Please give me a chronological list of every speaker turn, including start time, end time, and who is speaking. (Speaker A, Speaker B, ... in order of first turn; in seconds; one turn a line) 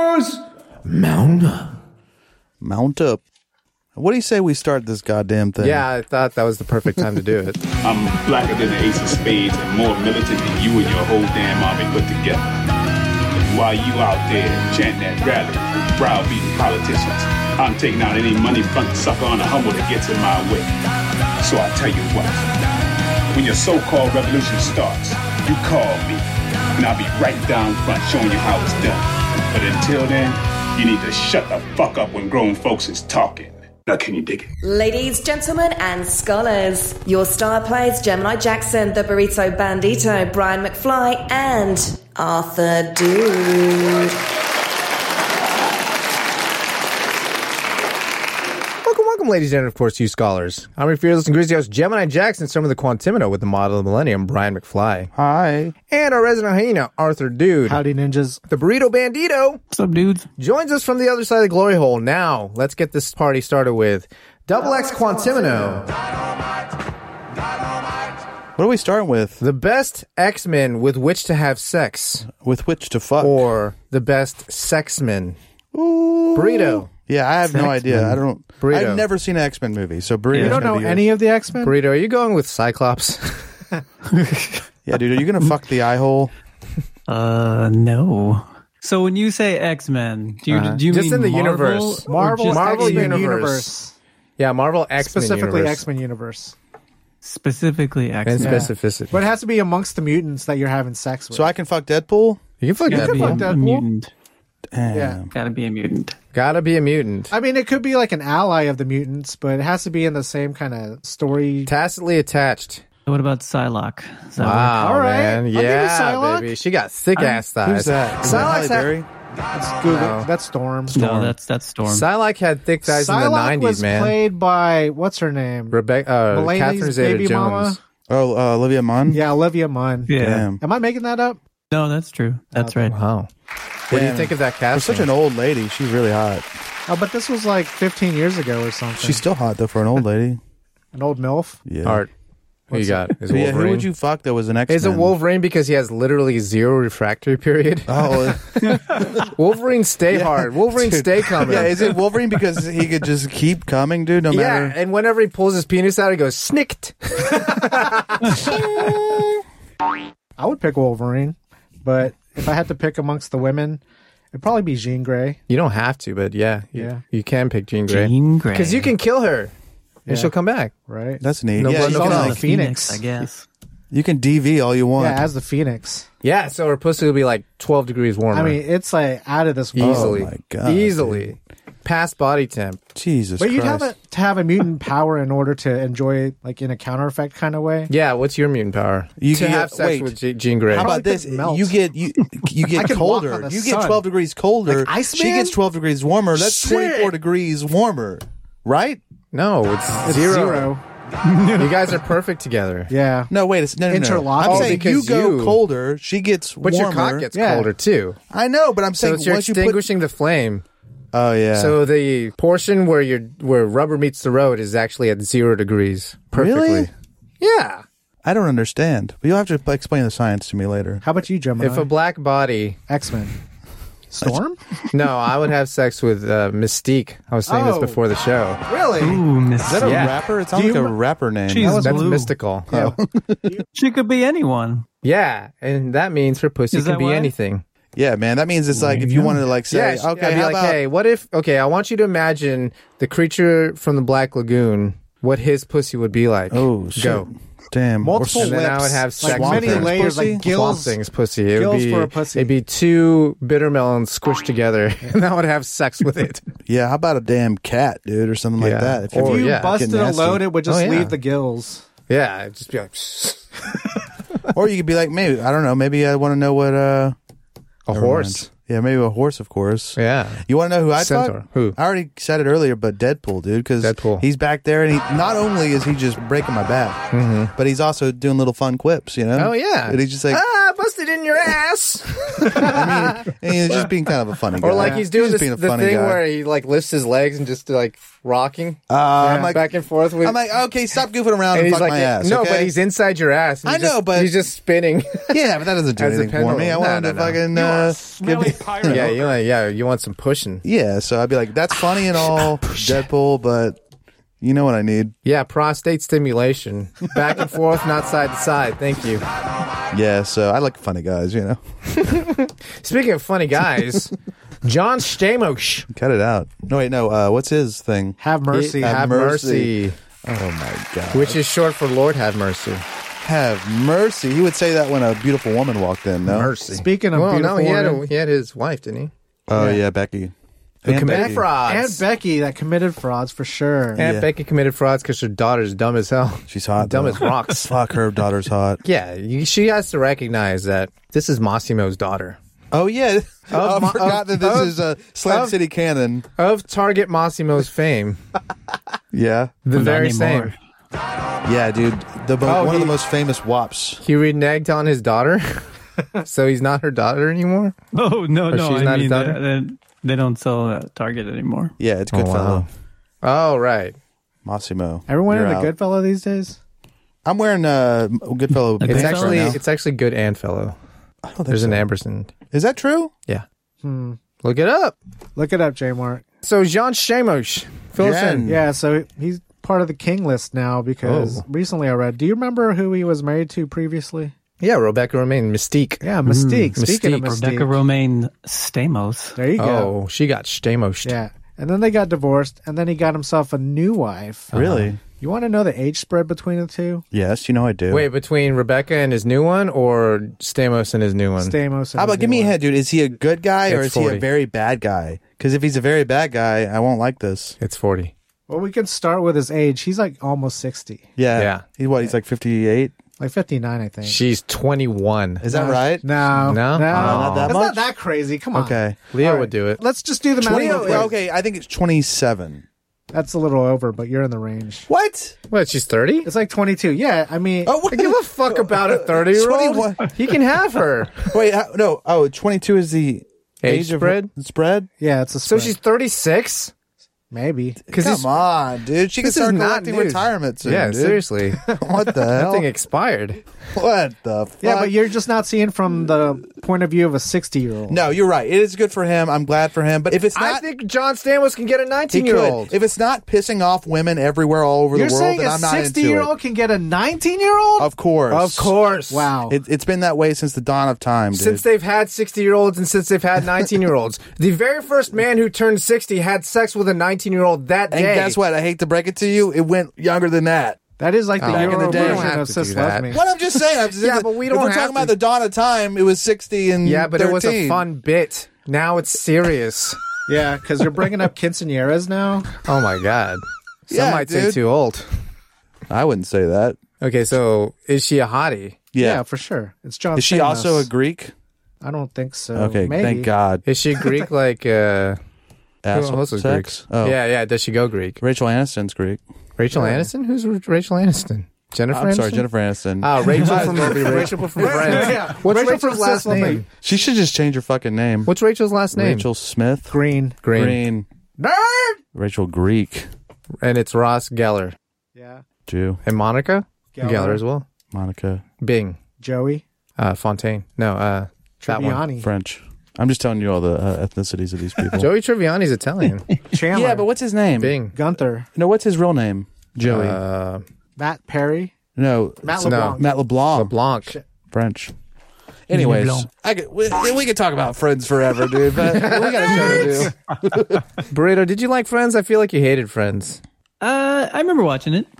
Speaker A: 0.8-1.7
Speaker B: 2.6-3.2
Speaker B: 4.0-5.9
Speaker A: 5.6-7.6
Speaker C: 7.8-12.6
Speaker C: 13.4-20.7
Speaker C: 21.4-22.4
Speaker C: 23.3-34.5
Speaker D: 34.6-44.2
Speaker A: 48.8-55.1
Speaker B: 55.1-55.8
Speaker A: 55.9-57.8
Speaker E: 57.7-58.4
Speaker A: 58.5-59.6
Speaker F: 59.7-60.3
Speaker A: 60.4-65.9
Speaker B: 68.6-69.4
Speaker A: 69.4-72.3
Speaker B: 72.3-73.5
Speaker A: 73.2-75.4
Speaker B: 75.7-81.1
Speaker A: 76.3-76.9
Speaker F: 77.5-77.9
Speaker A: 77.9-79.1
Speaker E: 80.3-81.8
Speaker A: 81.6-83.5
Speaker F: 84.1-84.6
Speaker B: 84.9-86.3
Speaker F: 87.1-93.2
Speaker B: 90.5-90.8
Speaker A: 90.8-93.7
Speaker E: 92.1-93.9
Speaker A: 94.4-95.9
Speaker E: 95.0-96.5
Speaker F: 97.2-98.7
Speaker A: 98.2-99.2
Speaker E: 98.4-101.5
Speaker B: 101.3-102.4
Speaker A: 102.6-103.5
Speaker F: 102.9-104.1
Speaker E: 102.9-103.9
Speaker B: 104.7-105.3
Speaker E: 104.9-105.2
Speaker F: 105.3-106.1
Speaker A: 106.3-107.3
Speaker E: 107.3-111.7
Speaker A: 111.7-112.8
Speaker F: 113.1-114.8
Speaker A: 114.4-118.9
Speaker E: 114.8-116.5
Speaker B: 117.4-119.1
Speaker E: 119.5-121.0
Speaker A: 119.9-120.3
Speaker F: 120.9-122.1
Speaker B: 120.9-121.3
Speaker A: 121.9-124.2
Speaker E: 122.9-127.8
Speaker A: 125.7-127.8
Speaker B: 128.1-129.2
Speaker E: 129.1-131.4
Speaker F: 130.1-130.5
Speaker B: 130.2-130.6
Speaker F: 131.7-132.9
Speaker E: 132.6-132.9
Speaker A: 132.9-133.3
Speaker A: 133.9-135.1
Speaker B: 133.9-136.5
Speaker E: 136.9-139.2
Speaker B: 139.0-140.4
Speaker E: 140.9-141.6
Speaker B: 141.7-142.0
Speaker A: 141.8-142.1
Speaker E: 142.7-143.1
Speaker A: 142.7-143.9
Speaker B: 143.3-145.2
Speaker A: 144.7-151.9
Speaker B: 147.9-149.2
Speaker B: 150.1-154.8
Speaker A: 154.3-158.3
Speaker E: 157.4-157.9
Speaker B: 158.4-159.4
Speaker E: 160.4-163.8
Speaker E: 164.3-165.4
Speaker A: 165.5-169.5
Speaker E: 166.8-167.0
Speaker F: 167.9-168.9
Speaker E: 170.1-170.3
Speaker A: 170.1-170.7
Speaker E: 170.9-171.2
Speaker B: 171.2-172.4
Speaker A: 171.6-172.4
Speaker F: 171.9-173.4
Speaker E: 171.9-173.0
Speaker B: 173.9-175.3
Speaker E: 174.9-176.1
Speaker A: 176.2-178.6
Speaker E: 178.3-180.2
Speaker A: 179.7-182.8
Speaker B: 179.8-181.3
Speaker B: 182.9-183.9
Speaker E: 183.4-187.9
Speaker A: 187.9-190.9
Speaker B: 189.2-190.1
Speaker B: 190.7-199.0
Speaker E: 190.7-191.7
Speaker E: 192.7-194.0
Speaker E: 194.7-195.6
Speaker E: 196.3-197.1
Speaker A: 199.3-200.7
Speaker E: 200.0-200.8
Speaker F: 201.2-202.0
Speaker A: 201.5-202.9
Speaker E: 202.9-203.3
Speaker B: 203.3-207.3
Speaker E: 203.9-204.8
Speaker A: 204.4-205.6
Speaker A: 206.6-208.2
Speaker E: 207.3-207.7
Speaker B: 208.3-209.9
Speaker A: 209.0-210.6
Speaker B: 211.1-211.8
Speaker A: 211.5-217.8
Speaker B: 216.3-216.9
Speaker B: 218.2-221.0
Speaker E: 221.0-221.9
Speaker A: 221.6-222.8
Speaker E: 222.9-223.3
Speaker E: 224.1-224.6
Speaker A: 224.9-228.6
Speaker E: 227.5-228.0
Speaker E: 228.7-229.2
Speaker F: 229.0-230.2
Speaker B: 229.6-231.8
Speaker A: 229.8-230.1
Speaker E: 230.5-230.9
Speaker F: 231.5-232.3
Speaker E: 231.6-232.9
Speaker A: 231.8-232.7
Speaker B: 232.7-233.6
Speaker F: 233.7-234.8
Speaker A: 235.0-237.6
Speaker F: 236.7-237.3
Speaker B: 237.9-240.8
Speaker F: 238.7-239.4
Speaker A: 239.7-247.3
Speaker B: 246.5-248.6
Speaker E: 248.0-251.0
Speaker A: 248.3-256.5
Speaker B: 249.2-250.4
Speaker E: 251.5-252.5
Speaker B: 256.7-260.5
Speaker A: 258.6-259.9
Speaker E: 259.1-261.9
Speaker A: 260.6-261.2
Speaker A: 262.1-263.5
Speaker B: 264.5-267.2
Speaker A: 267.9-268.5
Speaker B: 267.9-277.0
Speaker A: 270.0-270.4
Speaker A: 271.0-271.8
Speaker A: 273.8-274.2
Speaker A: 277.1-277.5
Speaker B: 277.5-280.4
Speaker A: 279.4-283.3
Speaker B: 282.6-286.2
Speaker A: 284.6-290.4
Speaker E: 284.8-285.0
Speaker B: 288.9-292.8
Speaker E: 289.2-289.6
Speaker A: 291.5-297.4
Speaker B: 293.6-294.4
Speaker B: 295.3-299.1
Speaker C: 297.5-299.2
Speaker A: 298.8-300.6
Speaker B: 300.6-303.8
Speaker B: 304.4-305.1
Speaker A: 305.2-309.2
Speaker B: 309.9-311.6
Speaker A: 311.9-314.1
Speaker A: 314.6-315.9
Speaker B: 315.9-318.2
Speaker E: 318.2-319.0
Speaker A: 318.5-320.0
Speaker B: 318.8-321.4
Speaker A: 321.1-322.8
Speaker B: 323.2-326.5
Speaker A: 326.3-329.1
Speaker E: 326.7-328.1
Speaker B: 329.5-330.3
Speaker E: 329.6-329.8
Speaker B: 330.8-331.4
Speaker A: 330.9-332.0
Speaker E: 331.0-334.1
Speaker B: 334.0-334.3
Speaker A: 334.0-337.7
Speaker B: 336.5-338.8
Speaker A: 338.8-342.4
Speaker B: 342.7-346.2
Speaker A: 343.5-344.8
Speaker A: 345.2-345.6
Speaker A: 346.4-348.2
Speaker B: 349.1-349.6
Speaker A: 349.6-350.5
Speaker F: 349.7-350.6
Speaker B: 351.4-354.0
Speaker E: 352.5-352.9
Speaker A: 354.0-355.6
Speaker A: 356.2-357.8
Speaker F: 357.9-361.7
Speaker A: 358.5-359.4
Speaker B: 361.8-362.7
Speaker A: 362.1-362.7
Speaker A: 363.2-364.0
Speaker B: 364.4-365.7
Speaker E: 365.1-366.6
Speaker B: 367.2-369.6
Speaker F: 368.8-369.6
Speaker A: 368.9-370.8
Speaker B: 371.2-371.9
Speaker A: 371.5-372.3
Speaker B: 372.5-373.1
Speaker E: 373.8-374.2
Speaker A: 374.4-375.0
Speaker E: 375.4-376.2
Speaker A: 376.4-378.5
Speaker B: 378.0-378.6
Speaker E: 378.4-384.3
Speaker A: 381.0-381.4
Speaker A: 384.6-386.0
Speaker E: 386.0-387.8
Speaker F: 386.2-389.4
Speaker A: 386.8-387.3
Speaker E: 389.4-389.9
Speaker A: 389.6-391.1
Speaker E: 391.0-394.5
Speaker A: 394.5-394.9
Speaker B: 394.5-395.0
Speaker E: 395.1-397.0
Speaker B: 397.1-398.1
Speaker A: 397.9-401.6
Speaker E: 401.4-402.6
Speaker B: 402.0-407.6
Speaker A: 403.7-404.2
Speaker A: 407.6-408.1
Speaker E: 408.5-411.1
Speaker B: 411.2-412.9
Speaker A: 411.4-411.6
Speaker E: 413.2-414.2
Speaker A: 414.0-415.5
Speaker B: 415.4-416.1
Speaker E: 415.5-421.1
Speaker A: 416.3-417.6
Speaker B: 416.9-417.9
Speaker B: 418.5-419.0
Speaker A: 419.1-419.8
Speaker B: 420.4-422.6
Speaker A: 420.4-421.1
Speaker E: 423.1-424.9
Speaker B: 424.9-425.4
Speaker A: 425.5-426.3
Speaker E: 426.2-427.8
Speaker B: 427.6-430.1
Speaker A: 427.9-431.3
Speaker B: 431.3-434.9
Speaker A: 433.6-434.3
Speaker E: 435.0-435.8
Speaker A: 435.4-436.7
Speaker E: 437.3-437.8
Speaker A: 437.9-438.3
Speaker B: 437.9-442.7
Speaker A: 439.2-441.7
Speaker A: 442.4-443.4
Speaker B: 443.7-445.0
Speaker E: 444.6-448.0
Speaker B: 447.9-450.7
Speaker A: 450.3-452.8
Speaker B: 452.1-456.3
Speaker E: 454.9-457.9
Speaker B: 457.8-458.7
Speaker A: 458.3-459.3
Speaker E: 458.7-459.6
Speaker B: 459.5-461.6
Speaker A: 461.3-468.4
Speaker B: 467.9-470.8
Speaker E: 471.0-473.2
Speaker A: 471.4-473.1
Speaker B: 471.4-472.4
Speaker B: 473.1-477.9
Speaker A: 473.8-475.1
Speaker A: 476.8-480.0
Speaker E: 480.3-482.5
Speaker A: 482.6-485.1
Speaker B: 483.9-484.6
Speaker B: 485.9-486.8
Speaker A: 487.0-488.8
Speaker B: 488.9-489.2
Speaker E: 489.0-490.9
Speaker B: 490.1-491.3
Speaker E: 491.8-493.3
Speaker B: 492.5-493.6
Speaker A: 493.6-495.2
Speaker B: 495.8-497.2
Speaker A: 495.9-498.2
Speaker B: 498.2-500.1
Speaker A: 499.6-502.4
Speaker B: 501.9-504.6
Speaker A: 503.0-506.7
Speaker E: 503.5-506.7
Speaker B: 506.7-508.3
Speaker A: 508.3-509.3
Speaker B: 508.9-510.0
Speaker E: 509.9-510.4
Speaker A: 510.4-510.8
Speaker B: 510.5-511.1
Speaker E: 511.4-512.0
Speaker B: 512.1-513.1
Speaker A: 513.6-514.8
Speaker E: 515.1-515.4
Speaker B: 515.6-516.0
Speaker A: 516.0-517.6
Speaker E: 516.9-517.4
Speaker B: 517.9-518.4
Speaker A: 518.6-519.0
Speaker E: 519.2-519.6
Speaker A: 520.0-522.0
Speaker E: 521.6-522.3
Speaker B: 522.2-525.1
Speaker A: 524.9-526.3
Speaker E: 526.5-527.1
Speaker B: 526.7-527.8
Speaker A: 527.6-527.9
Speaker E: 527.9-528.5
Speaker B: 528.5-530.2
Speaker A: 529.8-530.6
Speaker E: 531.0-531.7
Speaker B: 532.0-533.8
Speaker E: 532.4-533.2
Speaker A: 532.6-533.0
Speaker A: 533.5-534.1
Speaker B: 534.5-534.9
Speaker B: 535.7-540.8
Speaker F: 535.7-536.3
Speaker A: 538.8-540.1
Speaker A: 541.1-543.4
Speaker F: 543.8-545.1